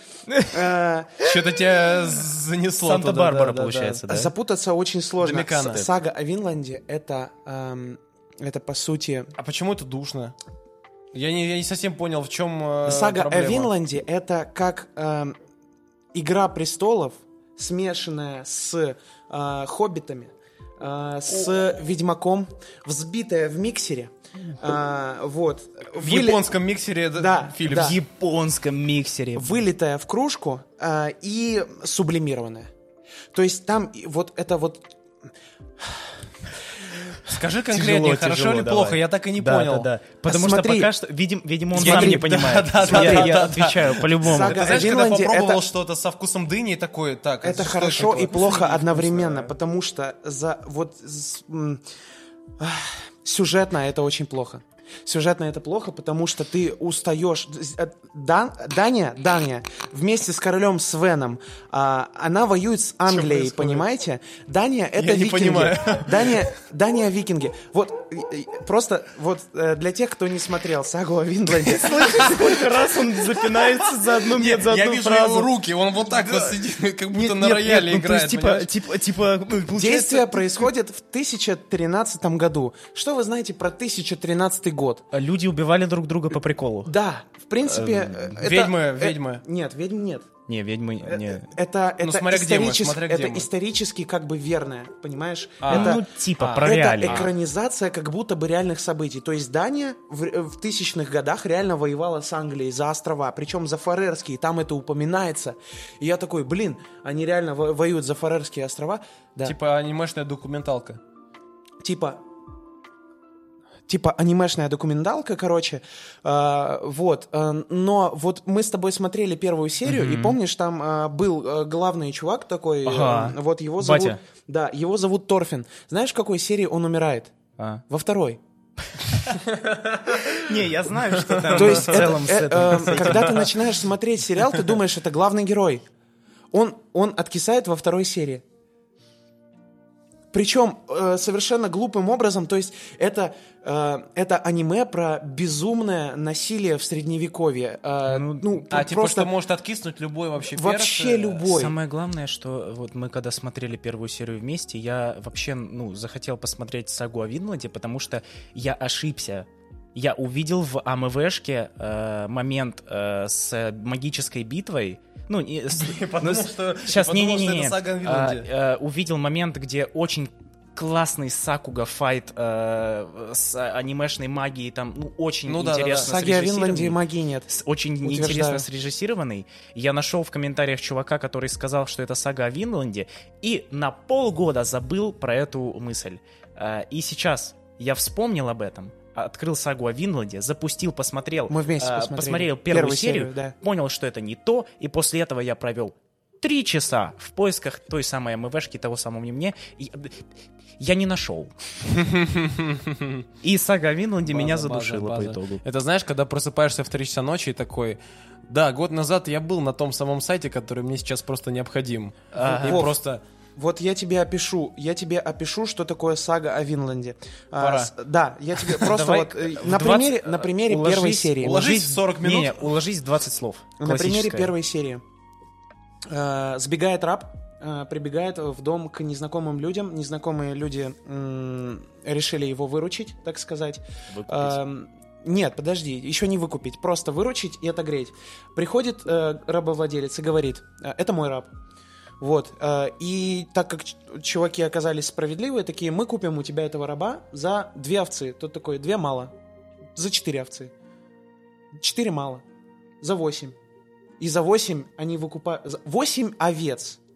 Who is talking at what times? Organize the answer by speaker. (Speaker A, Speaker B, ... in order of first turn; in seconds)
Speaker A: 0.4-1.3, 4.1-9.3, 12.9-15.4, 16.1-26.5, 27.2-28.0, 29.4-32.7, 33.3-34.9, 35.8-36.1, 40.2-40.9, 41.7-43.5, 44.2-45.7, 47.4-51.8, 52.6-72.7, 79.7-85.1, 86.9-90.3, 91.0-96.1, 96.6-109.6, 111.8-112.2, 113.9-127.3, 127.9-128.4, 131.5-135.8, 136.5-138.4, 140.3-149.3, 150.5-151.8, 176.0-177.5, 178.0-178.7, 191.5-193.6, 212.6-213.0, 213.6-221.7, 223.8-225.0, 226.1-241.5, 242.2-249.3, 250.0-250.7, 251.8-252.4, 253.0-253.6, 254.2-257.0
Speaker B: 1.2-4.0, 5.2-5.9, 9.4-10.3, 11.1-13.7, 26.0-28.0, 37.3-39.9, 41.7-49.5, 63.1-63.9, 65.0-66.5, 74.2-78.7, 88.4-89.4, 92.0-93.5, 95.6-97.3, 109.5-111.0, 129.5-130.3, 131.2-132.1, 133.1-133.4, 148.7-151.6, 165.7-168.5, 175.5-176.2, 201.9-203.3, 204.3-213.2, 217.6-217.9, 221.4-222.8
Speaker C: 2.8-4.3, 27.7-29.6, 37.7-44.8, 71.7-75.5, 77.1-80.7, 85.1-86.9, 87.7-88.4, 90.5-91.5, 95.7-97.3, 119.8-120.4, 122.8-124.2, 127.6-127.8, 130.2-133.5, 148.1-148.6, 151.5-200.3, 200.8-201.5, 203.4-205.6, 212.3-212.8, 218.8-224.5, 234.1-234.6